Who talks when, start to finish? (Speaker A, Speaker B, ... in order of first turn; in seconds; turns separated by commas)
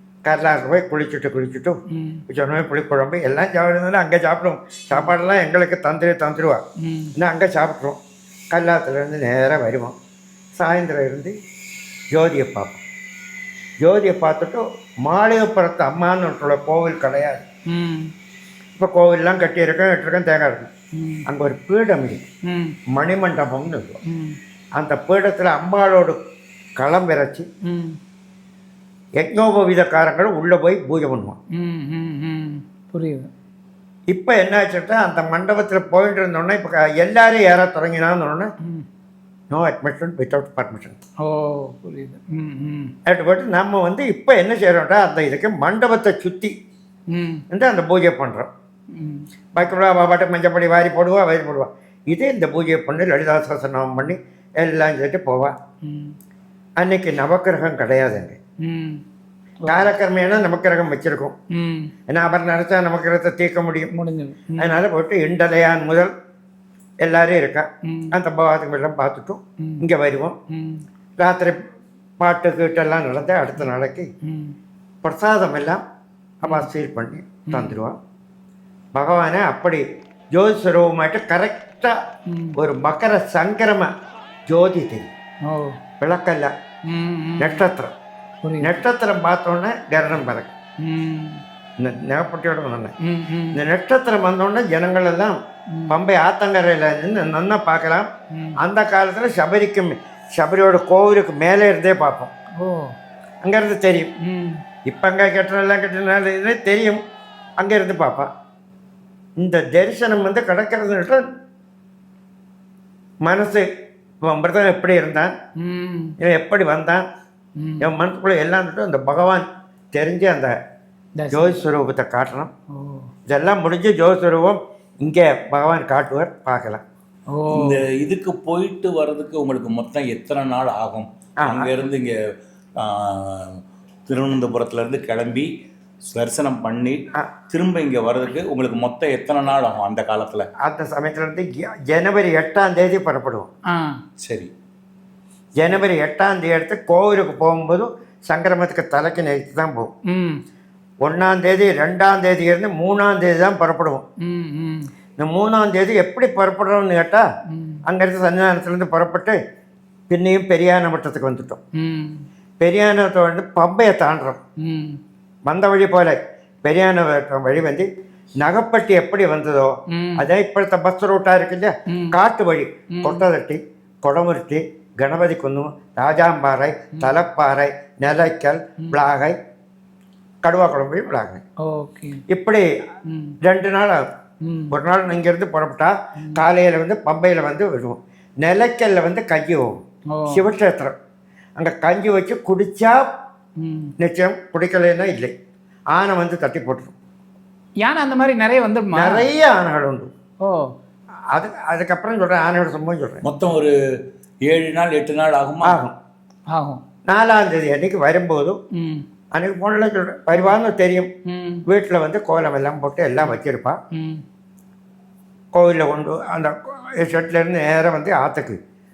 Speaker A: 0.2-1.8, Speaker B: 1.9-2.2, Speaker A: 2.3-6.6, Speaker B: 6.8-7.1, Speaker A: 7.2-8.0, Speaker A: 8.5-9.9, Speaker A: 10.6-11.3, Speaker A: 12.1-12.8, Speaker A: 13.8-17.4, Speaker B: 17.7-18.1, Speaker A: 18.8-20.7, Speaker B: 20.9-21.2, Speaker A: 21.3-22.2, Speaker B: 22.5-22.7, Speaker A: 22.9-23.9, Speaker B: 24.1-24.4, Speaker A: 24.8-26.2, Speaker A: 26.8-27.4, Speaker B: 27.7-28.0, Speaker A: 29.2-31.4, Speaker B: 31.6-33.3, Speaker A: 34.1-38.5, Speaker A: 39.5-41.0, Speaker B: 41.2-42.9, Speaker A: 43.0-46.5, Speaker B: 47.1-47.4, Speaker A: 47.5-48.5, Speaker B: 48.9-49.2, Speaker A: 49.5-55.5, Speaker B: 55.8-56.1, Speaker A: 56.8-58.4, Speaker B: 58.6-59.0, Speaker B: 59.6-59.9, Speaker A: 59.7-61.3, Speaker B: 61.5-61.9, Speaker A: 62.1-63.9, Speaker B: 63.9-64.8, Speaker A: 64.6-66.1, Speaker A: 67.0-70.3, Speaker B: 67.9-68.1, Speaker B: 70.5-70.8, Speaker A: 71.2-71.5, Speaker A: 72.2-74.1, Speaker B: 74.3-74.5, Speaker A: 75.0-75.8, Speaker A: 76.4-78.0, Speaker B: 76.4-76.7, Speaker B: 77.5-77.8, Speaker A: 78.9-81.9, Speaker B: 82.3-82.6, Speaker A: 82.6-83.9, Speaker A: 84.5-85.1, Speaker B: 85.5-85.8, Speaker A: 86.0-86.5, Speaker B: 86.9-87.6, Speaker A: 87.4-87.9, Speaker B: 88.4-88.8, Speaker A: 88.6-90.5, Speaker B: 90.8-91.4, Speaker A: 91.8-92.9, Speaker B: 93.0-93.6, Speaker A: 93.5-95.3, Speaker A: 95.9-98.1, Speaker B: 98.3-98.6, Speaker A: 98.6-102.3, Speaker B: 102.6-102.8, Speaker A: 103.4-104.1, Speaker B: 104.2-104.6, Speaker A: 104.8-107.0, Speaker A: 107.6-108.3, Speaker A: 109.4-111.2, Speaker A: 113.2-113.6, Speaker A: 114.2-115.3, Speaker B: 115.6-116.1, Speaker A: 116.2-117.0, Speaker B: 117.6-117.9, Speaker A: 117.8-120.5, Speaker B: 121.2-121.6, Speaker A: 121.3-122.5, Speaker B: 122.7-123.1, Speaker A: 123.3-126.8, Speaker B: 127.3-127.8, Speaker C: 127.5-132.2, Speaker A: 131.4-131.7, Speaker C: 132.8-135.5, Speaker C: 136.1-140.5, Speaker A: 140.6-143.5, Speaker C: 144.2-144.5, Speaker A: 145.6-149.9, Speaker B: 150.1-150.4, Speaker A: 151.0-154.0, Speaker B: 154.2-154.9, Speaker A: 155.2-157.2, Speaker B: 157.5-157.8, Speaker A: 157.8-159.3, Speaker A: 160.1-161.6, Speaker B: 161.8-162.2, Speaker A: 162.6-164.4, Speaker B: 164.6-165.0, Speaker A: 165.5-167.9, Speaker A: 168.4-179.3, Speaker B: 169.9-170.3, Speaker B: 171.9-172.2, Speaker B: 172.9-173.2, Speaker A: 180.4-181.4, Speaker B: 181.7-182.2, Speaker A: 182.3-182.7, Speaker B: 183.1-183.3, Speaker A: 183.4-184.0, Speaker B: 184.4-184.7, Speaker A: 184.7-189.8, Speaker B: 190.1-190.4, Speaker A: 190.3-190.9, Speaker A: 191.6-193.0, Speaker B: 193.6-193.9, Speaker A: 194.0-195.3, Speaker A: 195.9-196.9, Speaker B: 197.8-199.3, Speaker A: 198.9-200.1, Speaker A: 201.3-203.2, Speaker C: 203.2-203.7, Speaker C: 204.4-205.8, Speaker A: 205.6-205.9, Speaker B: 206.5-206.8, Speaker A: 207.1-208.6, Speaker B: 208.8-209.0, Speaker A: 209.3-211.1, Speaker B: 211.3-211.6, Speaker A: 211.7-213.8, Speaker B: 213.9-214.2, Speaker A: 215.5-218.6